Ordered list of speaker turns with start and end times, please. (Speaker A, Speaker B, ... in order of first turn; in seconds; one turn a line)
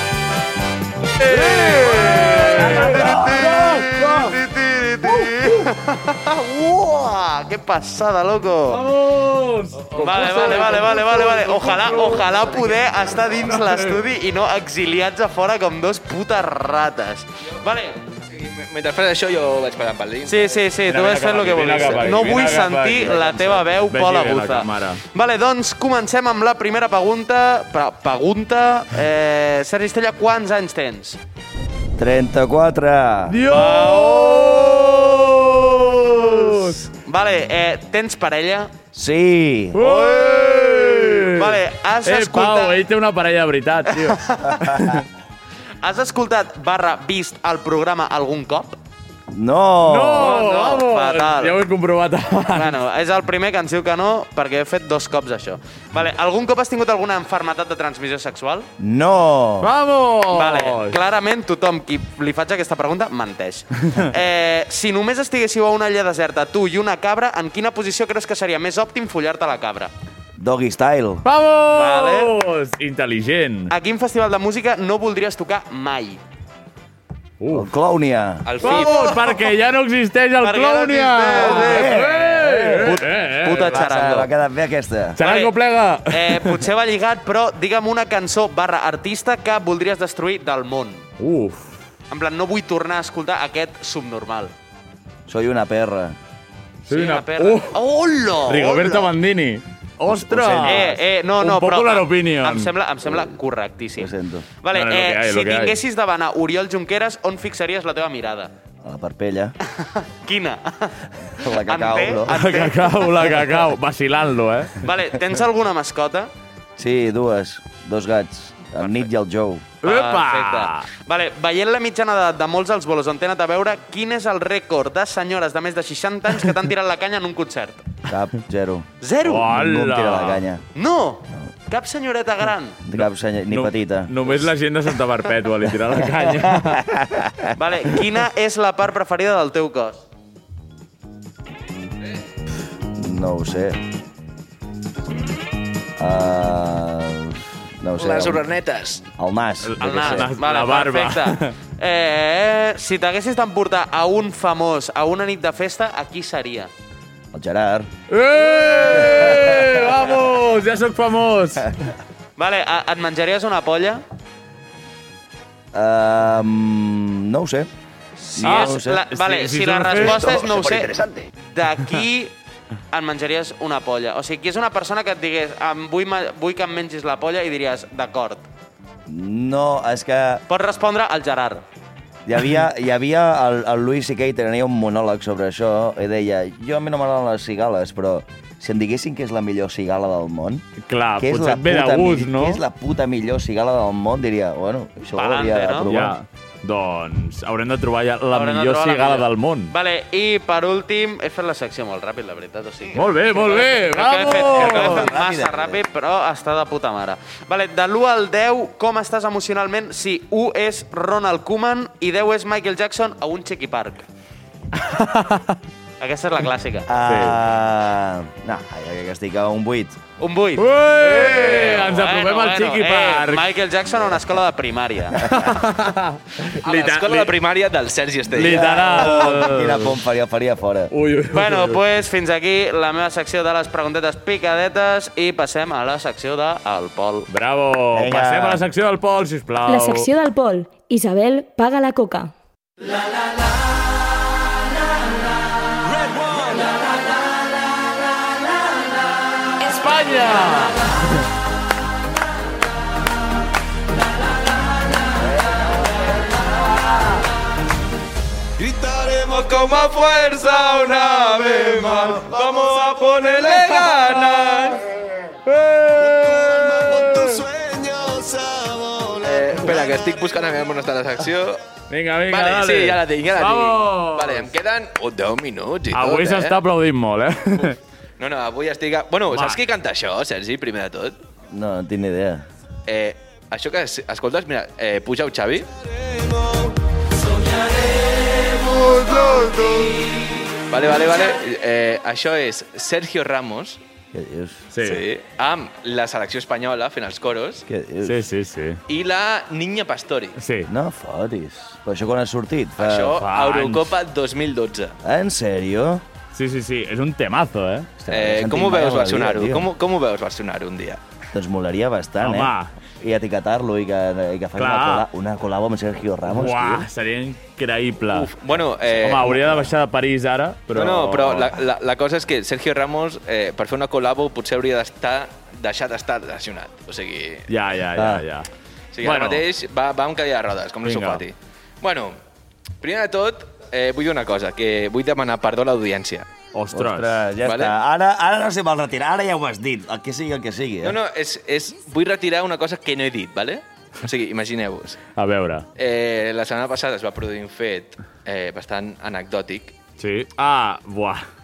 Speaker A: 1.2-4.4
Speaker B: 1.2-8.8
Speaker A: 5.0-5.7
Speaker A: 8.7-14.0
Speaker B: 9.9-18.0
Speaker C: 18.2-20.6
Speaker B: 20.3-31.2
Speaker A: 20.9-25.0
Speaker D: 23.1-23.5
Speaker D: 32.0-33.4
Speaker A: 33.3-36.8
Speaker B: 33.5-34.7
Speaker B: 37.0-38.7
Speaker D: 38.9-40.0
Speaker A: 39.7-45.1
Speaker B: 39.8-42.8
Speaker B: 43.9-44.6
Speaker B: 45.8-48.8
Speaker D: 49.3-50.4
Speaker A: 49.8-52.8
Speaker B: 50.2-51.6
Speaker B: 52.5-58.7
Speaker D: 58.8-59.7
Speaker A: 59.6-61.0
Speaker B: 60.3-69.9
Speaker D: 70.4-71.3
Speaker A: 71.2-73.7
Speaker B: 71.7-72.3
Speaker B: 73.7-76.2
Speaker A: 77.4-77.7
Speaker D: 77.5-78.5
Speaker C: 78.5-79.4
Speaker A: 78.6-83.8
Speaker B: 78.7-78.9
Speaker B: 80.4-82.0
Speaker D: 81.4-85.2
Speaker B: 82.8-84.3
Speaker A: 85.2-86.7
Speaker B: 85.2-85.5
Speaker B: 86.1-91.0
Speaker A: 91.2-91.8
Speaker B: 92.1-94.5
Speaker D: 95.3-96.2
Speaker A: 96.8-97.8
Speaker B: 96.9-99.1
Speaker A: 98.5-102.7
Speaker D: 100.1-101.0
Speaker B: 100.6-108.5
Speaker D: 103.0-103.3
Speaker D: 104.0-104.5
Speaker A: 104.7-105.8
Speaker D: 108.8-109.6
Speaker B: 109.8-113.4
Speaker D: 111.3-112.4
Speaker A: 112.3-114.8
Speaker B: 114.8-116.3
Speaker D: 116.8-119.7
Speaker A: 119.8-120.9
Speaker B: 119.8-127.8
Speaker D: 128.1-128.9
Speaker B: 129.0-129.5
Speaker A: 129.2-130.4
Speaker D: 129.4-130.6
Speaker B: 130.8-132.8
Speaker D: 132.8-134.4
Speaker A: 132.9-136.8
Speaker D: 135.9-137.6
Speaker B: 137.6-140.0
Speaker D: 142.9-143.8
Speaker D: 146.0-148.5
Speaker C: 148.0-149.1
Speaker D: 149.2-150.3
Speaker A: 149.6-151.6
Speaker B: 149.8-156.7
Speaker D: 157.3-157.9
Speaker A: 158.1-161.7
Speaker D: 159.0-159.8
Speaker B: 162.4-164.0
Speaker D: 165.7-169.1
Speaker B: 168.3-172.3
Speaker A: 168.4-170.4
Speaker D: 170.0-171.3
Speaker B: 172.9-178.4
Speaker D: 179.1-180.4
Speaker B: 180.5-181.6
Speaker D: 182.3-196.2
Speaker A: 190.8-192.6
Speaker B: 195.1-195.9
Speaker A: 195.8-199.7
Speaker B: 198.3-214.1
Speaker A: 202.9-205.1
Speaker D: 204.2-205.8
Speaker A: 214.8-215.6
Speaker B: 216.0-216.9
Speaker D: 216.9-220.0
Speaker A: 217.1-217.4
Speaker B: 220.2-225.3
Speaker A: 220.6-223.5
Speaker A: 225.2-227.3
Speaker D: 225.2-225.5
Speaker C: 226.6-228.9
Speaker A: 228.3-230.0
Speaker D: 228.4-230.9
Speaker A: 230.9-231.8
Speaker B: 231.3-237.3
Speaker A: 237.3-240.1
Speaker D: 237.9-238.7
Speaker E: 239.7-242.3
Speaker A: 249.6-250.9
Speaker C: 258.6-264.8
Speaker A: 263.9-264.5
Speaker A: 265.5-267.5
Speaker C: 269.0-271.6
Speaker A: 271.9-274.5
Speaker C: 272.3-276.6
Speaker A: 275.9-277.8
Speaker C: 277.6-281.2
Speaker A: 279.3-279.6
Speaker D: 281.5-282.4
Speaker C: 282.9-285.7
Speaker C: 288.5-293.8
Speaker D: 294.1-294.6
Speaker A: 294.7-295.0
Speaker C: 294.8-297.6
Speaker D: 297.7-298.3
Speaker A: 298.0-298.8
Speaker C: 298.9-300.4
Speaker A: 300.4-300.7
Speaker D: 300.7-303.2
Speaker C: 302.8-305.0
Speaker A: 303.2-303.9
Speaker D: 305.0-306.0
Speaker A: 306.3-307.9
Speaker D: 308.0-309.7
Speaker C: 308.1-311.0
Speaker D: 311.3-316.9
Speaker A: 312.2-312.7
Speaker A: 314.6-315.1
Speaker A: 316.3-318.3
Speaker C: 318.1-319.6
Speaker A: 319.0-321.6
Speaker C: 320.7-327.5
Speaker A: 327.5-328.5
Speaker D: 327.9-328.3
Speaker C: 328.9-332.2
Speaker A: 329.0-329.4
Speaker A: 330.8-331.2
Speaker C: 332.8-336.3
Speaker A: 336.5-337.2
Speaker D: 336.7-341.0
Speaker C: 337.4-337.8
Speaker C: 340.8-345.0
Speaker A: 345.1-345.7
Speaker C: 345.8-349.8
Speaker A: 350.0-351.3